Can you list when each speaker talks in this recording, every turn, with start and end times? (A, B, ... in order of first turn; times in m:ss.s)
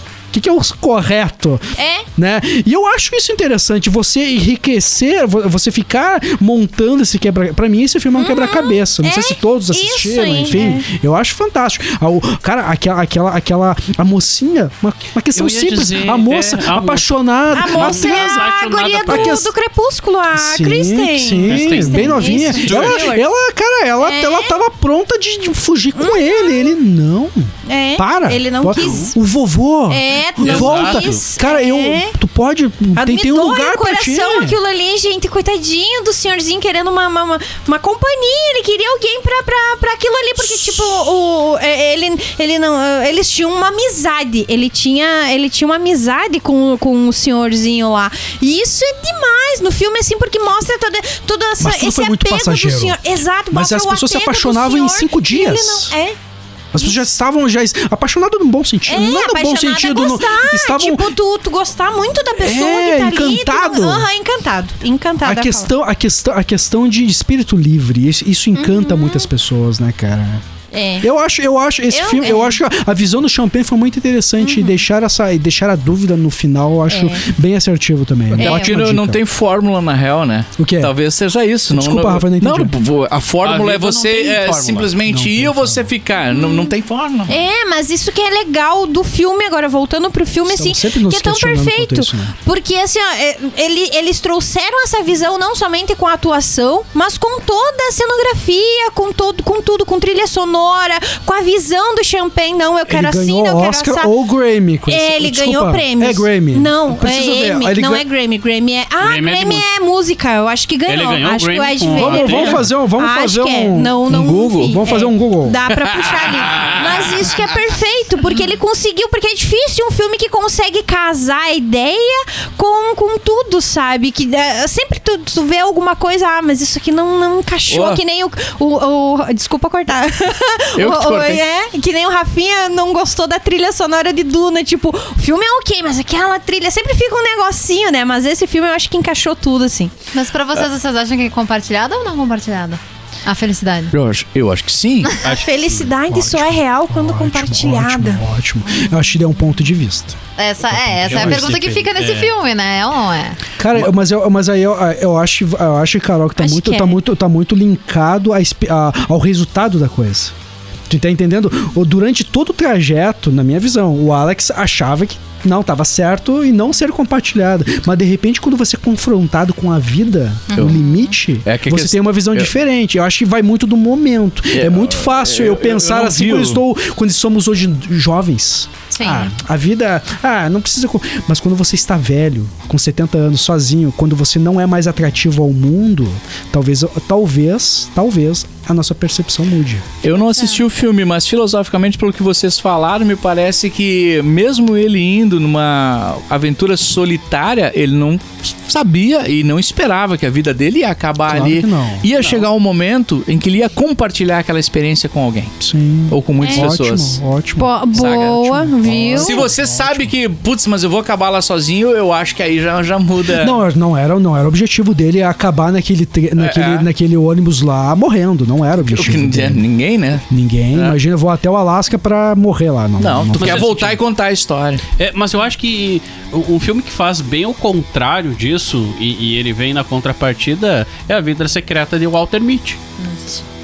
0:00.3-0:18.4 A
0:01.8-0:02.1 B
0:08.2-0:10.9 B
0:15.4-0:19.4 C
0:17.5-0:23.3 B
0:19.1-0:19.5 A
0:20.3-0:34.6 A
0:21.4-0:23.1 C
0:24.0-0:24.6 B
0:26.0-0:26.7 B
0:27.7-0:29.2 B
0:29.9-0:32.2 B
0:30.4-0:31.2 C
0:33.0-0:56.2 B
0:51.6-0:55.9 A
0:56.7-1:01.1 A
0:58.9-1:05.7 B
1:02.4-1:04.1 A
1:05.2-1:10.4 A
1:08.6-1:09.3 B
1:10.7-1:11.1 B
1:11.0-1:19.2 A
1:11.9-1:12.6 B
1:14.4-1:14.8 B
1:16.9-1:17.3 B
1:18.4-1:27.4 D
1:18.4-1:18.7 B
1:20.6-1:20.9 A
1:21.7-1:22.7 A
1:23.4-1:24.9 C
1:25.0-1:25.9 A
1:26.4-1:26.7 B
1:27.3-1:44.1 B
1:30.5-1:32.4 A
1:42.9-1:48.0 A
1:44.9-2:19.9 B
1:49.0-1:49.7 C
1:50.9-1:52.6 C
1:52.0-1:54.0 A
1:54.1-1:54.8 D
1:54.6-1:55.6 A
1:55.7-1:57.5 D
2:07.7-2:08.0 D
2:10.8-2:11.4 D
2:20.1-2:23.9 E
2:23.9-2:25.1 D
2:25.2-2:25.5 C
2:25.2-2:28.2 B
2:26.1-2:30.2 A
2:28.7-2:29.0 E
2:30.4-2:33.4 E
2:31.0-2:32.3 C
2:33.6-2:40.3 A
2:36.4-2:37.0 B
2:40.9-3:09.9 A
2:50.5-2:51.2 E
2:51.4-2:52.5 D
2:54.5-2:56.6 D
2:59.0-2:59.3 E
3:10.0-3:25.6 D
3:10.1-3:10.6 E
3:21.3-3:22.1 A
3:25.6-3:30.1 A
3:26.1-3:27.2 D
3:26.4-3:26.7 B
3:27.6-3:29.5 B
3:27.9-3:33.6 D
3:33.4-3:39.6 A
3:36.4-3:36.9 D
3:38.9-3:40.2 D
3:40.3-3:43.9 A
3:43.0-3:44.8 D
3:43.4-3:44.0 C
3:45.0-3:52.8 C
3:53.0-3:53.4 E